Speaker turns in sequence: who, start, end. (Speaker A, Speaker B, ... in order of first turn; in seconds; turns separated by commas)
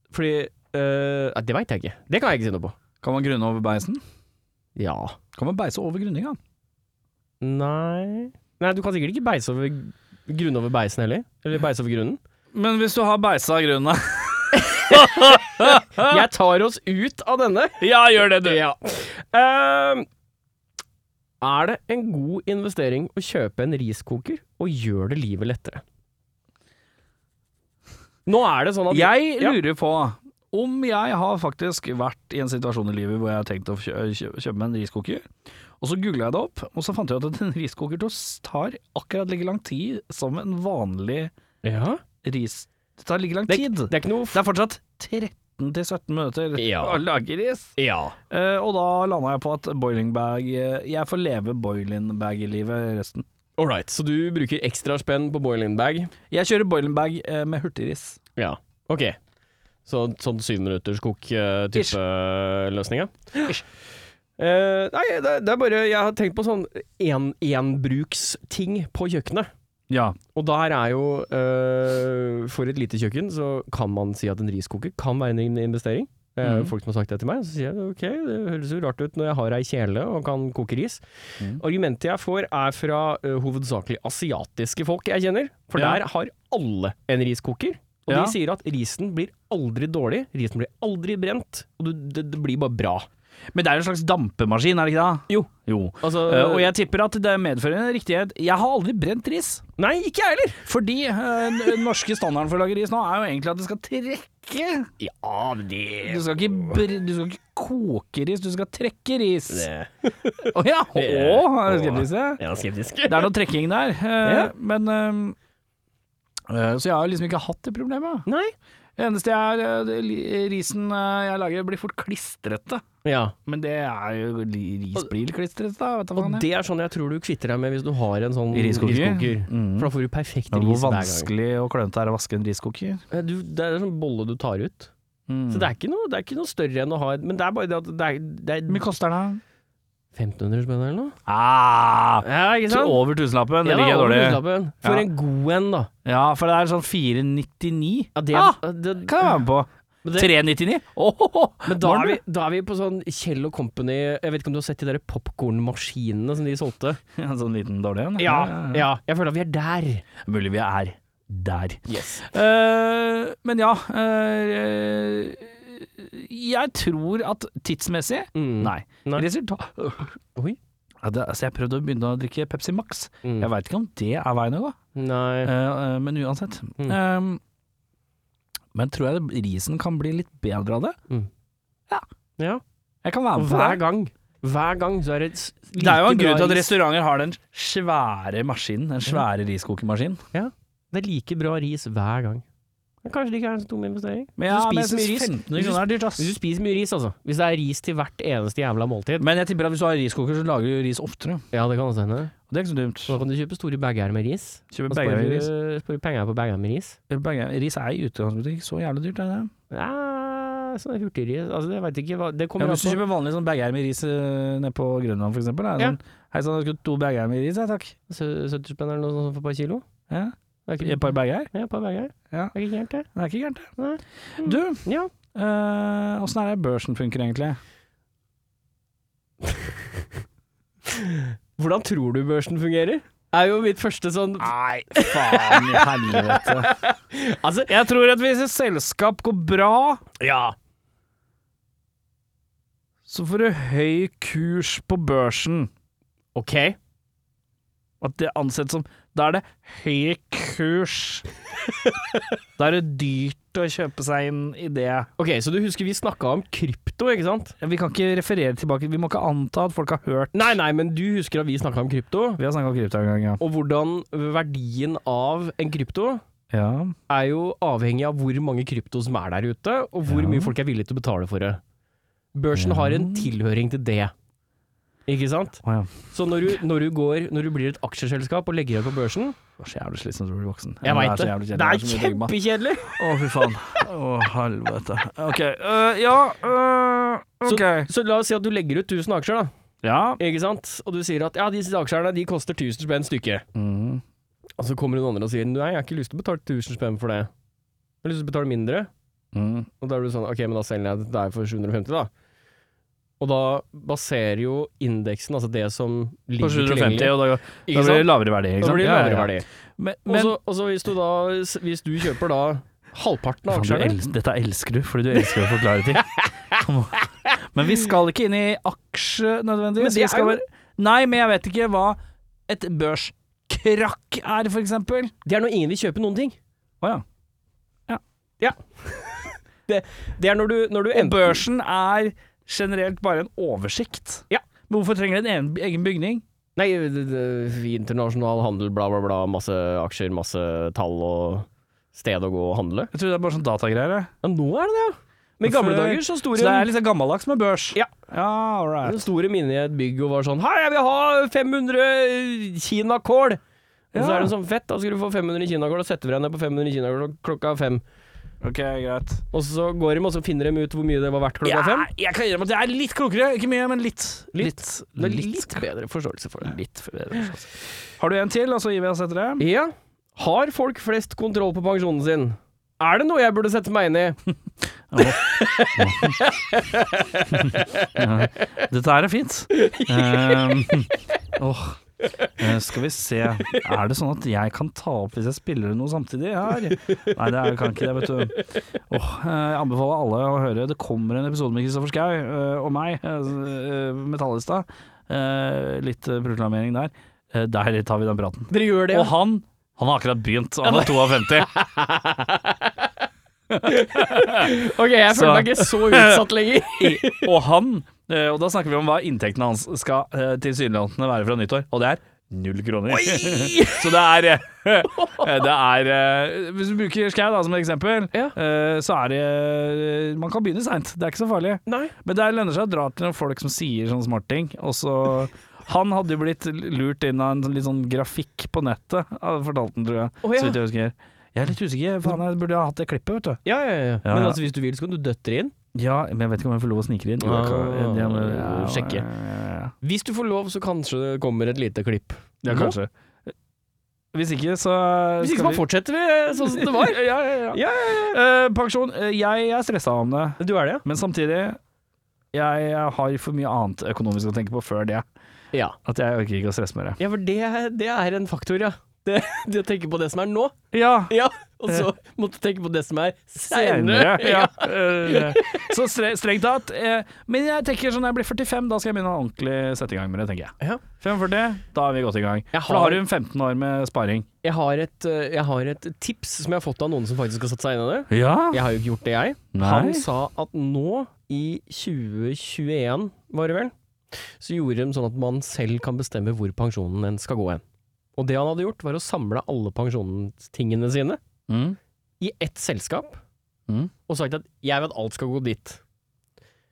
Speaker A: 0.1-2.8, Speaker B: 3.0-4.0, Speaker A: 4.8-5.2, Speaker B: 5.3-6.4, Speaker A: 7.4-12.2, Speaker B: 12.5-16.2, Speaker A: 14.5-15.4, Speaker A: 16.0-20.1, Speaker B: 17.8-18.6, Speaker A: 21.4-25.8, Speaker A: 28.3-29.6, Speaker B: 28.9-35.3, Speaker B: 35.8-41.3, Speaker A: 41.6-42.0, Speaker B: 42.2-47.8, Speaker A: 43.5-44.4, Speaker A: 46.6-47.0, Speaker A: 47.8-48.2, Speaker B: 48.3-53.2, Speaker A: 53.6-56.1, Speaker B: 56.3-58.2, Speaker A: 58.4-59.2, Speaker A: 59.9-63.6, Speaker A: 64.4-69.5, Speaker B: 69.9-70.2, Speaker A: 70.3-81.0, Speaker B: 76.4-76.7, Speaker A: 81.6-93.1, Speaker B: 85.8-86.0, Speaker B: 88.1-88.4, Speaker B: 93.5-99.6, Speaker A: 95.3-96.7, Speaker A: 99.8-100.6, Speaker B: 100.7-104.9, Speaker A: 105.0-106.7, Speaker B: 106.1-109.7, Speaker A: 109.5-113.3, Speaker B: 110.5-112.4, Speaker B: 113.1-115.4, Speaker A: 114.2-114.5, Speaker B: 116.5-118.2, Speaker A: 118.3-118.5, Speaker B: 119.0-122.8, Speaker A: 123.0-123.3, Speaker B: 123.5-126.5, Speaker A: 126.2-131.3, Speaker B: 128.5-129.9, Speaker B: 130.5-133.0, Speaker A: 133.1-134.9, Speaker B: 135.3-135.7, Speaker A: 135.5-138.8, Speaker B: 138.7-139.4, Speaker A: 140.1-141.2, Speaker B: 141.3-145.1, Speaker A: 142.2-143.0, Speaker A: 143.6-145.9, Speaker B: 146.1-152.2, Speaker A: 148.2-149.4, Speaker A: 150.0-150.3, Speaker A: 151.7-157.0, Speaker B: 157.2-158.9, Speaker A: 158.2-160.1, Speaker B: 160.2-170.2, Speaker A: 161.9-162.3, Speaker A: 168.3-169.3, Speaker B: 171.0-174.8, Speaker A: 173.2-173.5, Speaker A: 174.9-175.5, Speaker B: 175.4-177.4, Speaker B: 178.7-181.0, Speaker B: 183.0-183.8, Speaker A: 183.3-186.7, Speaker B: 185.7-190.2, Speaker A: 190.3-192.4, Speaker A: 193.0-199.3, Speaker B: 194.4-196.3, Speaker B: 199.2-201.4, Speaker A: 201.5-202.3, Speaker B: 202.5-203.2, Speaker A: 203.1-207.0, Speaker B: 204.7-205.5, Speaker B: 207.1-209.5, Speaker A: 209.7-213.0, Speaker B: 212.6-217.9, Speaker A: 218.1-219.8, Speaker B: 220.1-221.5, Speaker A: 220.7-223.1, Speaker B: 223.1-223.7, Speaker A: 223.8-225.1, Speaker B: 224.4-227.6, Speaker A: 229.5-229.8, Speaker A: 230.9-237.7, Speaker B: 234.4-236.7, Speaker B: 237.7-240.1, Speaker A: 240.2-240.6, Speaker B: 243.1-245.7, Speaker A: 246.3-246.8, Speaker B: 248.0-251.3, Speaker B: 252.6-255.1, Speaker A: 255.2-257.6, Speaker B: 257.6-260.6, Speaker A: 260.3-262.4, Speaker B: 262.4-263.4, Speaker A: 263.4-266.2, Speaker B: 266.5-266.9, Speaker A: 267.1-271.6, Speaker B: 270.1-270.5, Speaker A: 272.4-274.1, Speaker B: 272.5-273.3, Speaker A: 275.1-279.4, Speaker B: 275.6-275.9, Speaker B: 279.6-282.4, Speaker A: 280.9-283.0, Speaker B: 282.9-287.9, Speaker A: 287.4-289.5, Speaker B: 289.8-290.2, Speaker A: 290.2-293.4, Speaker B: 293.6-294.0, Speaker A: 294.6-297.3, Speaker A: 298.0-298.9, Speaker B: 299.3-299.7, Speaker A: 299.8-302.1, Speaker A: 303.2-309.5, Speaker B: 306.4-310.4, Speaker A: 310.1-314.0, Speaker B: 313.5-325.1, Speaker A: 316.1-316.6, Speaker A: 319.8-320.4, Speaker A: 325.2-326.4, Speaker A: 328.4-331.4, Speaker B: 330.9-336.2, Speaker A: 336.6-342.9, Speaker B: 342.9-344.1, Speaker A: 344.2-346.7, Speaker B: 345.4-349.0, Speaker A: 348.8-353.4, Speaker B: 353.9-354.3, Speaker A: 353.9-357.8, Speaker B: 358.4-359.2, Speaker A: 359.3-361.9, Speaker B: 361.4-365.6, Speaker A: 364.3-366.6, Speaker B: 366.4-369.4, Speaker A: 369.4-374.2, Speaker B: 374.9-376.2, Speaker A: 375.0-378.3, Speaker B: 377.3-381.8, Speaker A: 379.5-380.9, Speaker B: 382.4-388.4, Speaker A: 386.9-388.6, Speaker B: 388.9-401.5, Speaker A: 398.5-399.1, Speaker A: 400.6-402.9, Speaker B: 403.5-404.5, Speaker A: 403.6-407.3, Speaker B: 405.1-433.4, Speaker A: 412.9-414.0, Speaker A: 414.9-415.4, Speaker A: 421.7-421.9, Speaker A: 430.2-430.6, Speaker A: 433.4-435.5, Speaker B: 434.0-434.4, Speaker B: 435.8-439.7, Speaker A: 437.2-439.1, Speaker A: 439.8-442.8, Speaker B: 442.5-443.3, Speaker B: 444.1-445.6, Speaker A: 445.2-448.2, Speaker B: 446.4-451.6, Speaker A: 450.4-450.8, Speaker B: 452.3-455.1, Speaker B: 455.8-457.0, Speaker A: 457.0-460.6, Speaker B: 460.7-461.1, Speaker A: 461.1-465.7, Speaker B: 463.4-474.3, Speaker A: 472.5-473.0, Speaker A: 474.4-483.7, Speaker B: 478.1-478.6, Speaker B: 479.5-480.1, Speaker A: 484.4-487.6, Speaker A: 488.2-491.2, Speaker B: 491.5-491.8, Speaker A: 492.2-493.2, Speaker A: 494.1-495.8